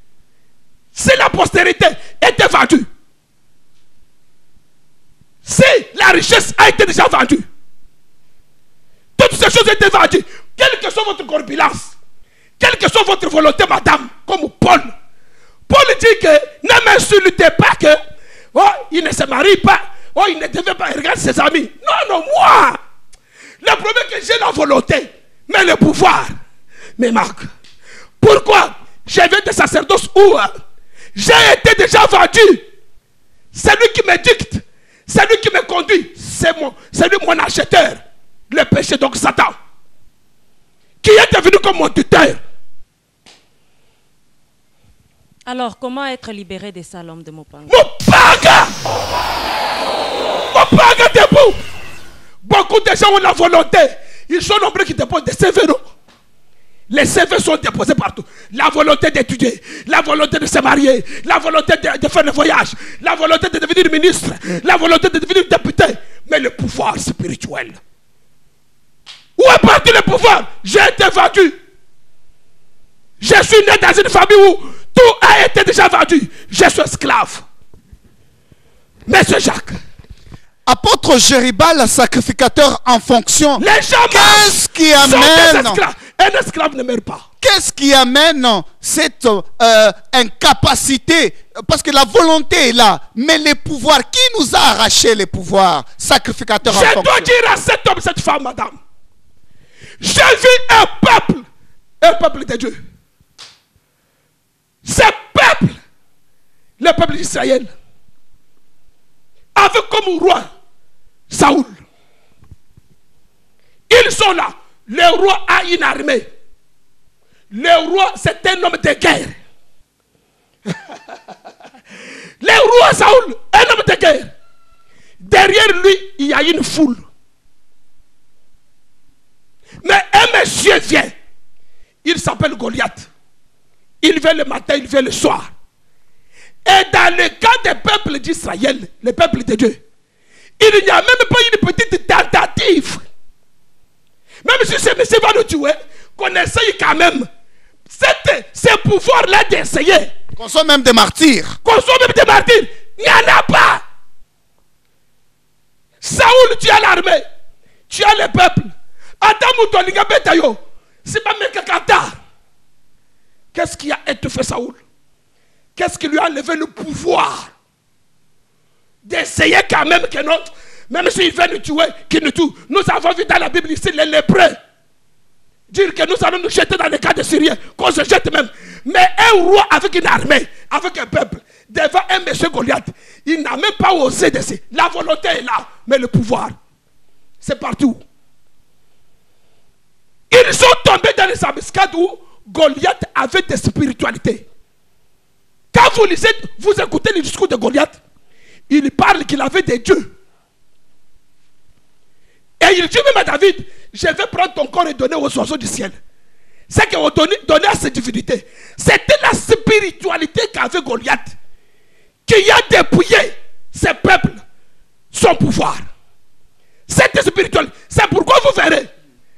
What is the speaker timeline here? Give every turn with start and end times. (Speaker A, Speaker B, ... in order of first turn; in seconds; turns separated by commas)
Speaker A: 0.9-2.9, Speaker A: 5.5-7.5, Speaker A: 9.2-11.9, Speaker A: 12.6-14.9, Speaker A: 15.7-18.0, Speaker A: 18.5-22.8, Speaker A: 23.6-26.4, Speaker A: 27.0-27.5, Speaker A: 28.2-30.5, Speaker A: 31.1-32.6, Speaker A: 33.5-39.5, Speaker A: 41.0-42.4, Speaker B: 45.5-47.8, Speaker A: 47.7-48.8, Speaker A: 50.5-51.6, Speaker A: 52.4-55.8, Speaker A: 56.9-67.8, Speaker A: 69.4-71.6, Speaker A: 73.2-77.4, Speaker A: 79.1-79.8, Speaker C: 80.7-85.8, Speaker A: 83.6-87.2, Speaker C: 87.4-97.3, Speaker A: 96.6-98.8, Speaker A: 100.0-101.5, Speaker A: 102.0-102.8, Speaker A: 104.8-105.8, Speaker A: 106.8-107.7, Speaker A: 109.5-110.5, Speaker A: 111.3-111.8, Speaker A: 113.9-116.3, Speaker A: 117.5-119.4, Speaker A: 122.4-124.3, Speaker A: 125.2-127.0, Speaker A: 129.8-131.2, Speaker A: 132.0-133.1, Speaker A: 134.0-135.5, Speaker A: 136.7-139.8, Speaker A: 140.6-143.0, Speaker A: 144.4-147.3, Speaker A: 147.9-150.1, Speaker C: 150.4-151.6, Speaker A: 151.7-153.8, Speaker A: 156.0-157.2, Speaker A: 157.9-162.1, Speaker A: 163.5-164.8, Speaker A: 165.8-167.5, Speaker A: 169.1-174.6, Speaker A: 175.7-186.6, Speaker A: 187.4-188.0, Speaker A: 190.3-194.4, Speaker A: 195.7-198.0, Speaker A: 198.7-200.1, Speaker A: 202.6-205.9, Speaker A: 206.7-211.3, Speaker A: 212.3-214.4, Speaker A: 215.1-215.9, Speaker A: 216.9-218.9